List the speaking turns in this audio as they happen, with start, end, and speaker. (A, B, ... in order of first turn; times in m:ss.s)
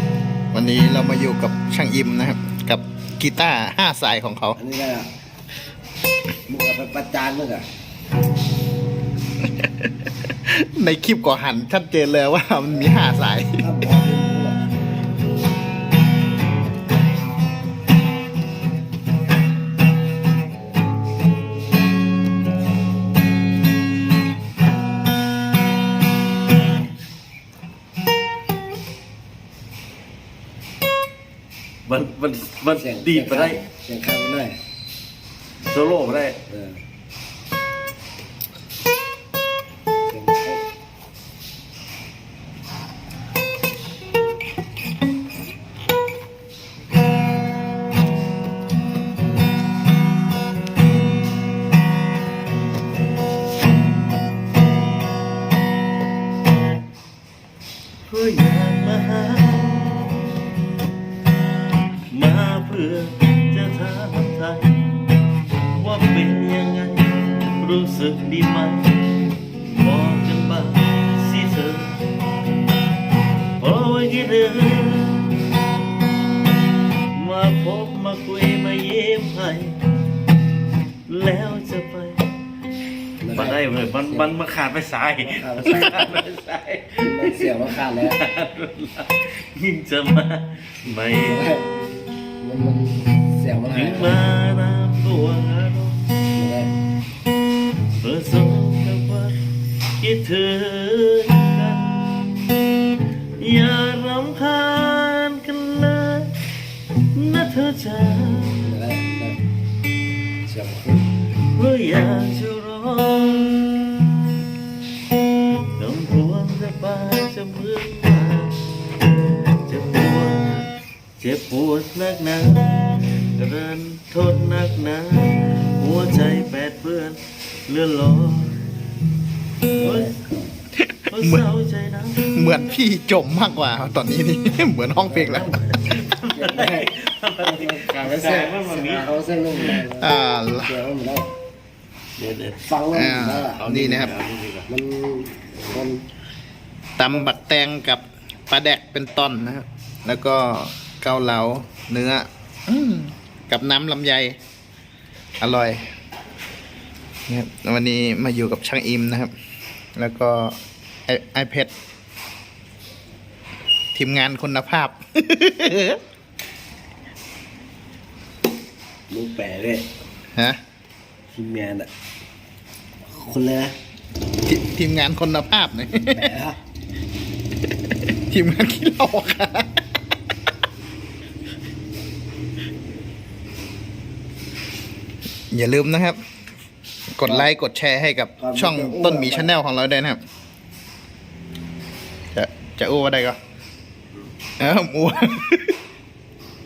0:00.5-0:04.6 A
0:04.5-0:05.1 B
0:06.5-0:07.7 B
0:09.6-0:13.6 A
0:13.6-0:14.7 B
0:31.8-0:33.6 C
0:32.7-0:34.6 B
0:35.6-0:36.4 C
0:36.5-0:36.8 B
0:40.1-0:40.6 B
0:58.0-1:00.4 C
1:02.1-1:05.0 C
1:05.7-1:12.0 C
1:13.6-1:15.4 C
1:17.1-1:19.8 C
1:21.1-1:22.3 C
1:23.2-1:24.3 B
1:23.2-1:31.5 C
1:25.2-1:26.1 B
1:27.0-1:28.2 B
1:31.2-1:31.7 B
1:32.4-1:34.2 B
1:33.7-1:36.2 C
1:36.3-1:36.7 B
1:38.0-1:39.4 C
1:40.0-1:42.6 C
1:43.4-1:46.4 C
1:47.1-1:48.6 C
1:48.6-1:49.4 B
1:50.4-1:51.1 B
1:51.4-1:54.1 C
1:55.6-1:58.6 C
1:59.6-2:00.6 C
2:01.2-2:08.6 C
2:09.8-2:10.4 B
2:09.8-2:10.2 C
2:10.8-2:11.5 A
2:11.1-2:12.3 C
2:12.2-2:15.5 A
2:15.2-2:19.8 C
2:16.3-2:20.1 B
2:19.9-2:20.7 A
2:20.6-2:21.3 B
2:22.2-2:22.7 C
2:22.6-2:23.7 B
2:22.9-2:24.1 A
2:23.6-2:24.7 C
2:24.7-2:26.0 B
2:27.0-2:34.4 A
2:35.4-2:35.8 A
2:37.3-2:39.3 A
2:40.0-2:41.7 A
2:43.9-2:46.0 A
2:49.1-2:49.8 B
2:50.3-2:50.6 A
2:51.3-2:51.9 B
2:53.0-2:53.7 B
2:54.4-2:56.3 A
2:56.1-2:56.6 B
2:58.1-2:59.7 A
3:05.5-3:06.2 A
3:07.1-3:10.2 A
3:08.4-3:09.5 B
3:12.3-3:13.4 A
3:14.6-3:15.8 A